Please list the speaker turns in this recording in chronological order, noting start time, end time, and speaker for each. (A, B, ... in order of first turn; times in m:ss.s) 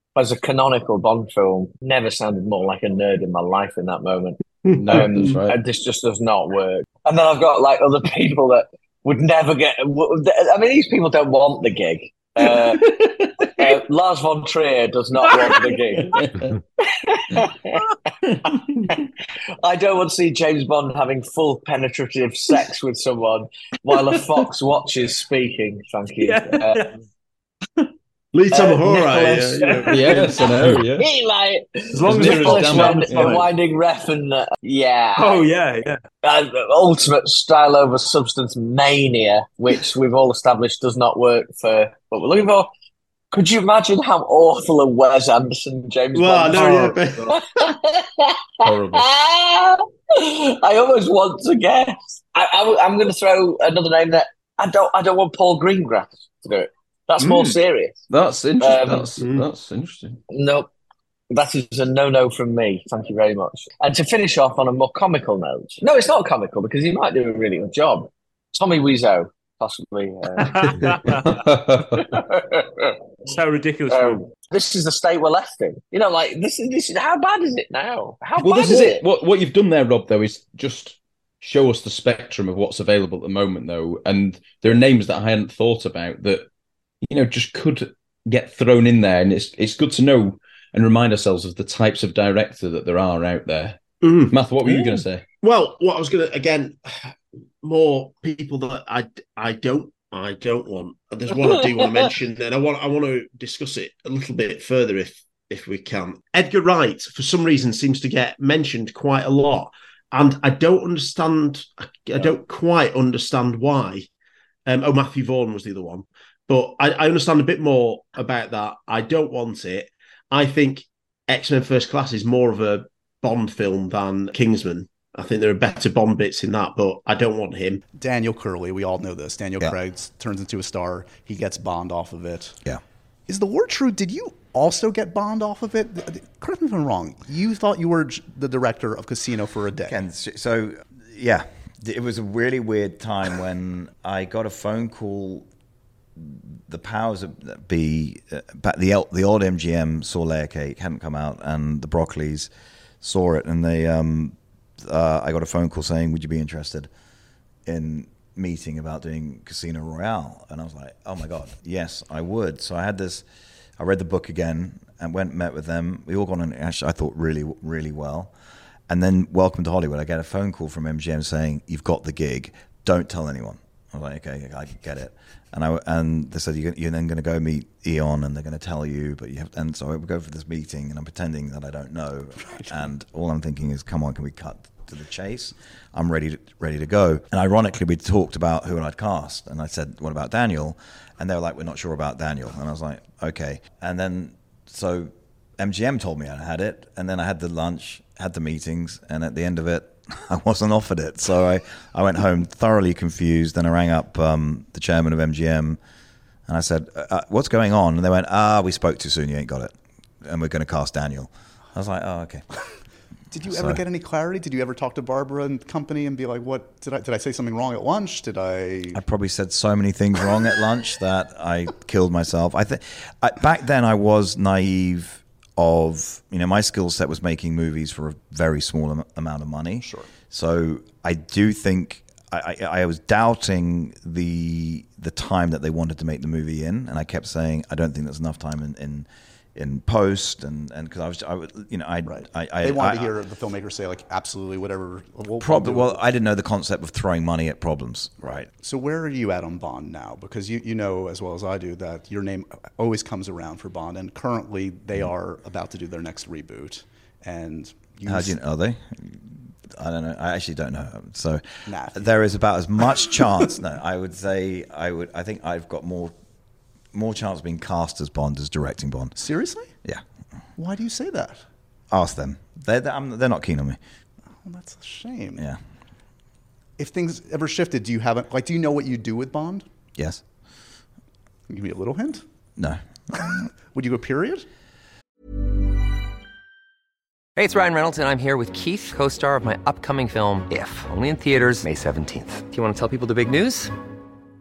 0:00.2-0:04.4 A
0:04.6-0:05.2 B
0:04.8-0:05.6 C
0:04.9-0:12.9 A
0:12.5-0:13.7 C
0:13.6-0:16.2 A
0:15.4-0:16.5 C
0:16.9-0:17.8 A
0:18.5-0:19.0 A
0:19.6-0:26.8 A
0:26.2-0:26.9 D
0:28.3-0:30.2 B
0:28.5-0:35.5 A
0:29.6-0:30.3 D
0:29.9-0:31.1 C
0:31.9-0:33.5 D
0:32.0-0:33.4 C
0:35.2-0:36.0 D
0:36.2-0:42.7 A
0:43.3-0:58.1 A
0:46.2-0:47.3 B
0:48.6-0:49.1 C
0:57.2-0:57.6 D
0:58.1-1:00.2 C
0:58.6-0:59.1 A
0:59.2-0:59.5 B
1:00.3-1:00.7 A
1:01.3-1:10.7 A
1:10.4-1:11.4 D
1:11.4-1:12.0 C
1:12.0-1:13.0 A
1:13.3-1:14.3 D
1:13.9-1:19.0 A
1:18.4-1:26.4 C
1:27.0-1:33.8 C
1:34.0-1:54.1 B
1:34.3-1:35.2 C
1:41.3-1:42.1 A
1:54.7-2:07.8 B
2:07.9-2:12.6 E
2:13.3-2:20.0 E
2:19.8-2:25.5 F
2:26.2-2:32.5 F
2:33.0-2:36.9 F
2:37.7-2:43.3 F
2:43.8-2:48.3 F
2:48.9-3:25.8 F
3:02.4-3:03.0 E
3:26.5-3:32.4 F
3:33.3-3:39.0 E
3:33.4-3:33.8 F
3:38.9-4:03.2 F
3:49.8-3:50.2 E
4:02.0-4:06.2 E
4:05.4-4:08.5 F
4:08.2-4:18.4 E
4:18.1-4:26.2 F
4:21.7-4:23.6 E
4:26.9-4:30.0 F
4:29.2-4:29.8 E
4:30.6-4:31.5 E
4:31.9-4:33.8 F
4:34.3-4:35.5 E
4:35.4-4:35.6 F
4:36.8-4:39.6 E
4:40.0-4:40.2 F
4:41.5-4:42.2 E
4:42.6-4:43.2 F
4:43.2-4:44.5 E
4:47.4-4:53.7 G